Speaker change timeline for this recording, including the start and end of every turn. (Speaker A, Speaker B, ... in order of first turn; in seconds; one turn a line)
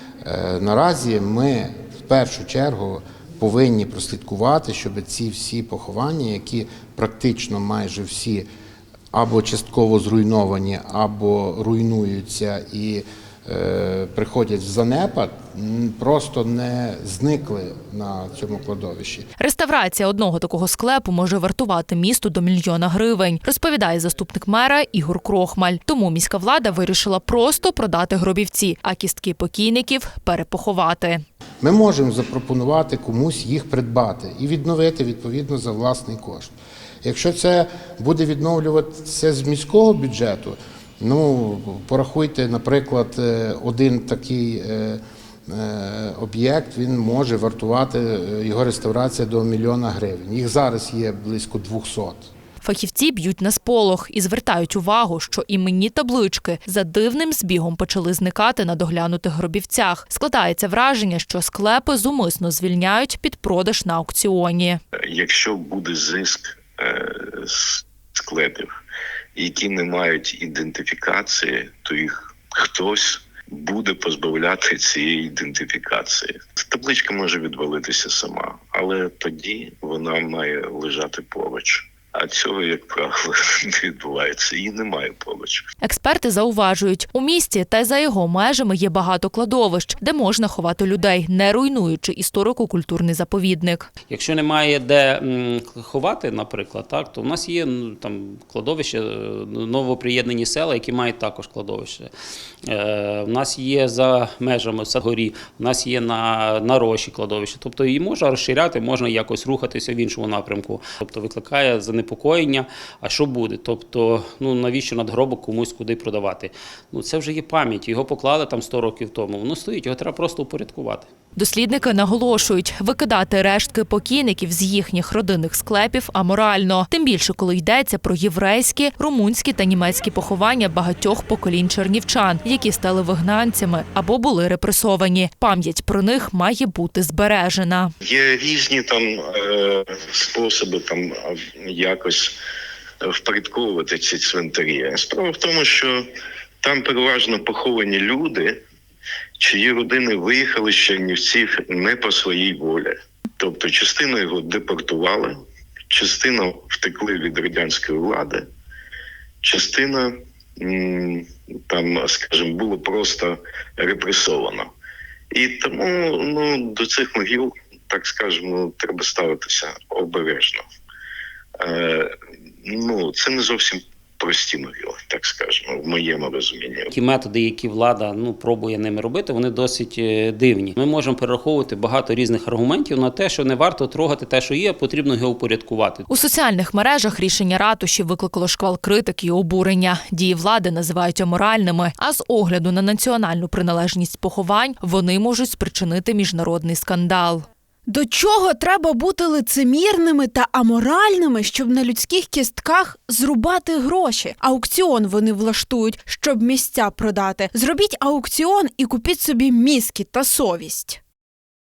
Speaker A: 0.2-8.5
Speaker A: 9.1-19.3
Speaker B: 19.4-31.2
Speaker A: 31.6-52.3
Speaker B: 52.6-64.8
Speaker C: 65.1-68.7
Speaker C: 69.4-85.6
Speaker B: 85.8-93.9
Speaker D: 94.1-102.1
Speaker D: 102.7-121.1
Speaker B: 121.4-137.9
Speaker C: 138.0-142.4
Speaker C: 143.0-146.1
Speaker C: 146.6-148.6
Speaker C: 149.4-155.4
Speaker C: 155.9-158.4
Speaker C: 159.4-164.7
Speaker C: 165.3-170.6
Speaker C: 171.6-172.1
Speaker C: 172.7-176.9
Speaker D: 176.9-186.1
Speaker B: 186.1-197.5
Speaker E: 197.9-211.0